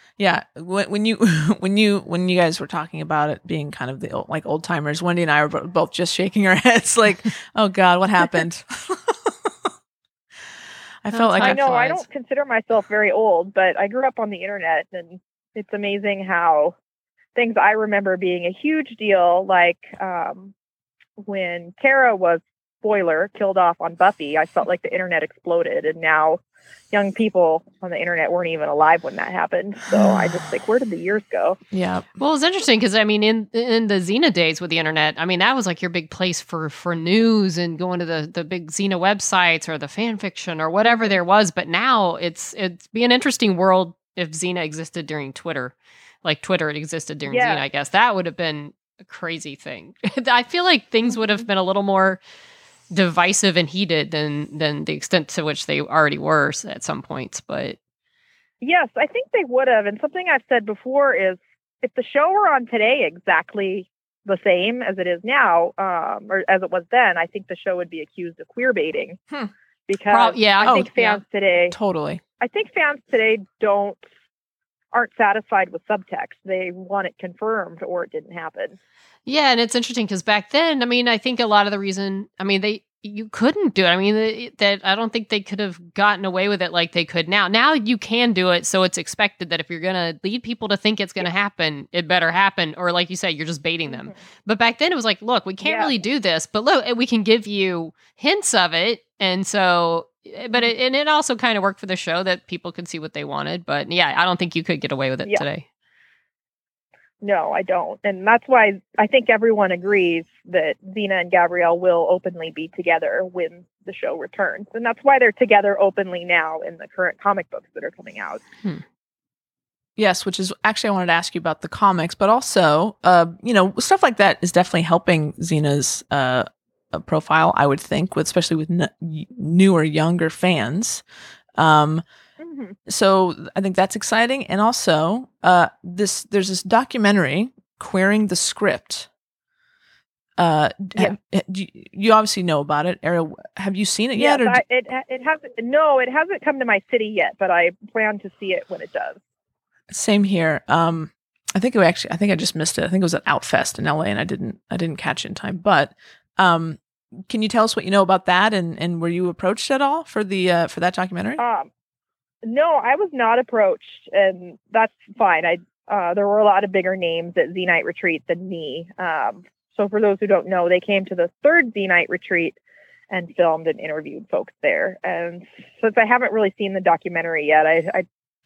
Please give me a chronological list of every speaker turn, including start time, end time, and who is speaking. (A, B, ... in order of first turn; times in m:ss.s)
0:00.2-0:09.5 A
0:11.0-0:11.6 A
0:11.1-0:12.0 B
0:11.4-0:16.8 C
0:17.4-0:20.5 C
0:21.2-0:26.4 C
0:26.9-0:31.6 C
0:31.7-0:32.1 A
0:32.2-0:52.2 B
0:40.8-0:41.2 C
0:47.3-0:47.6 C
0:52.9-0:57.8 B
0:58.6-1:09.2 C
1:09.9-1:11.8 C
1:10.1-1:11.2 B
1:11.7-1:12.2 A
1:12.4-1:14.0 C
1:14.9-1:18.8 C
1:19.3-1:45.6 B
1:35.6-1:35.9 C
1:47.2-1:58.4 C
2:00.0-2:11.0 A
2:11.6-2:12.0 A
2:12.4-2:12.8 C
2:12.9-2:19.1 A
2:20.4-2:24.6 A
2:24.2-2:29.2 C
2:29.9-2:41.4 A
2:41.4-2:41.7 C
2:42.4-2:52.6 C
2:53.1-2:58.1 C